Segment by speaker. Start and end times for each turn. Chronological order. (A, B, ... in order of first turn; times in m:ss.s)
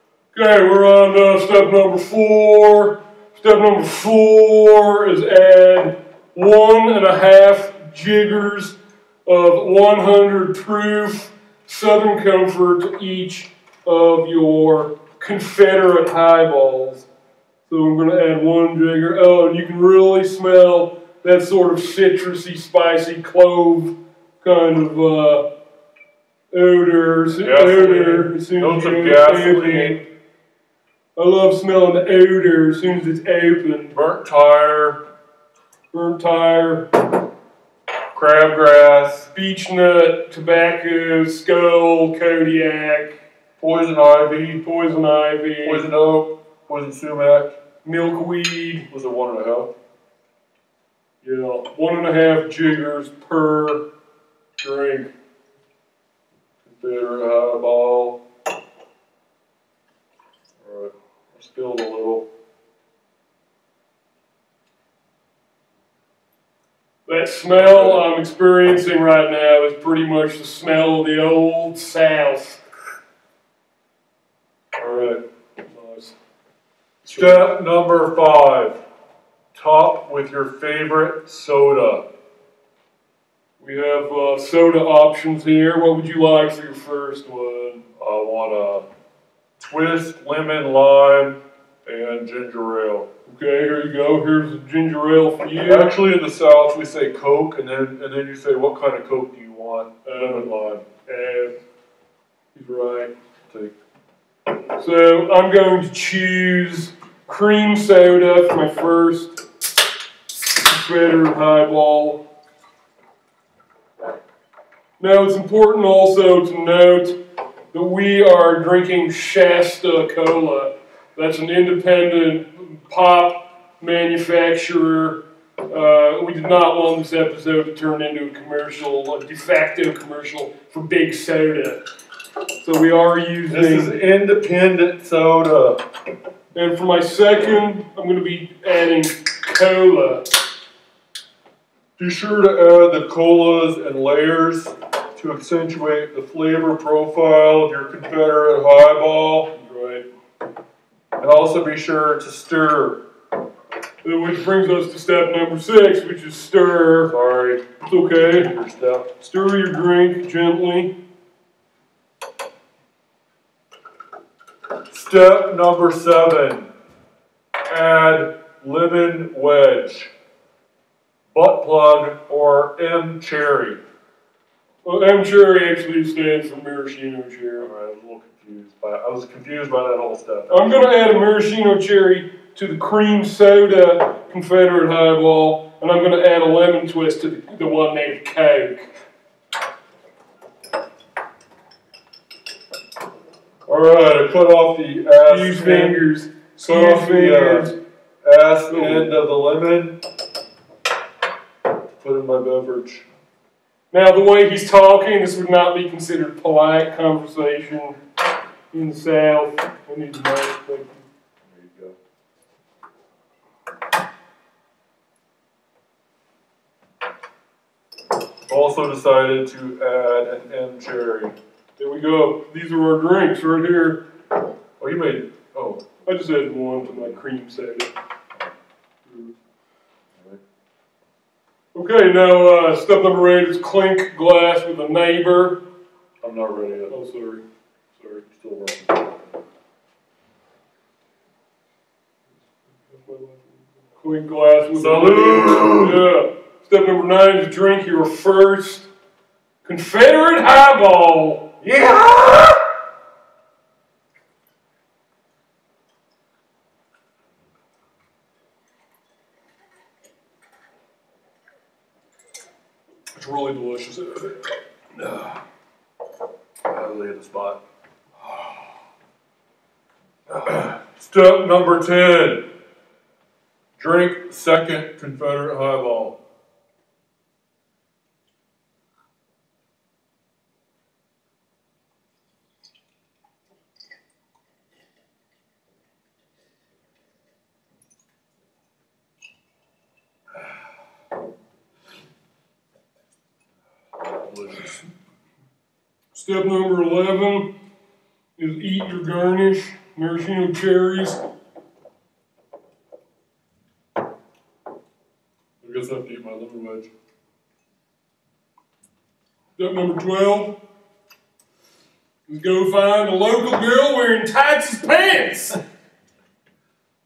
0:00.3-0:17.1 A
0:17.7-0:25.5 A
0:26.5-0:30.0 A
0:27.4-0:30.0 B
0:31.2-0:34.0 A
0:33.9-0:35.0 B
0:35.9-0:36.9 A
0:38.1-0:39.3 B
0:39.3-0:43.2 A
0:43.6-0:44.6 B
0:44.6-0:45.9 A
0:45.6-0:47.6 B
0:47.8-0:48.9 A
0:48.9-0:49.7 B
0:51.2-0:53.9 A
0:54.6-0:55.1 A
0:56.6-0:58.2 B
1:00.6-1:02.3 B
1:07.1-1:12.6 A
1:07.5-1:08.0 B
1:14.8-1:15.2 B
1:15.6-1:16.2 A
1:17.0-1:18.8 B
1:17.1-1:17.5 A
1:19.5-1:22.0 B
1:23.6-1:27.8 A
1:28.0-1:28.8 B
1:29.6-1:33.1 B
1:33.3-1:35.9 A
1:35.6-1:40.9 B
1:40.0-1:40.5 A
1:41.1-1:41.6 A
1:42.5-1:43.1 A
1:44.8-1:49.4 A
1:50.3-1:52.2 A
1:55.0-1:57.2 A
1:57.7-2:11.8 A
2:12.6-2:14.0 A
2:13.5-2:15.8 B
2:16.6-2:20.2 A
2:22.0-2:29.5 B
2:29.5-2:30.1 A
2:31.2-2:33.0 B
2:34.0-2:37.2 A
2:37.1-2:37.6 B
2:37.8-2:38.5 A
2:38.3-2:39.1 B
2:39.2-2:40.9 A
2:44.9-2:46.7 B
2:47.7-2:50.1 B
2:51.3-2:53.8 B
2:54.8-2:57.7 A
2:57.6-3:00.9 B
3:00.5-3:08.9 A
3:13.7-3:16.0 B
3:15.3-3:17.8 A
3:16.6-3:20.0 B
3:18.7-3:19.1 A
3:22.0-3:23.1 B
3:23.9-3:28.0 A
3:28.7-3:31.0 A
3:31.4-3:32.0 B
3:38.5-3:41.4 B
3:41.8-3:44.0 A
3:44.8-3:45.8 B
3:46.0-3:47.9 A
3:46.9-3:47.2 B
3:49.0-3:49.3 A
3:51.7-3:55.6 A
3:56.2-3:57.0 B
3:56.9-3:57.4 A
3:58.2-3:59.2 B
4:02.9-4:08.9 A
4:04.8-4:06.0 B
4:09.6-4:11.5 A
4:11.6-4:12.6 B
4:23.2-4:25.4 A
4:26.6-4:27.6 B
4:30.3-4:32.5 B
4:33.8-4:36.2 B
4:54.2-4:54.8 B
4:56.1-4:57.5 A
4:58.4-5:01.2 A
5:05.6-5:06.9 B
5:09.6-5:10.6 A
5:12.3-5:15.6 A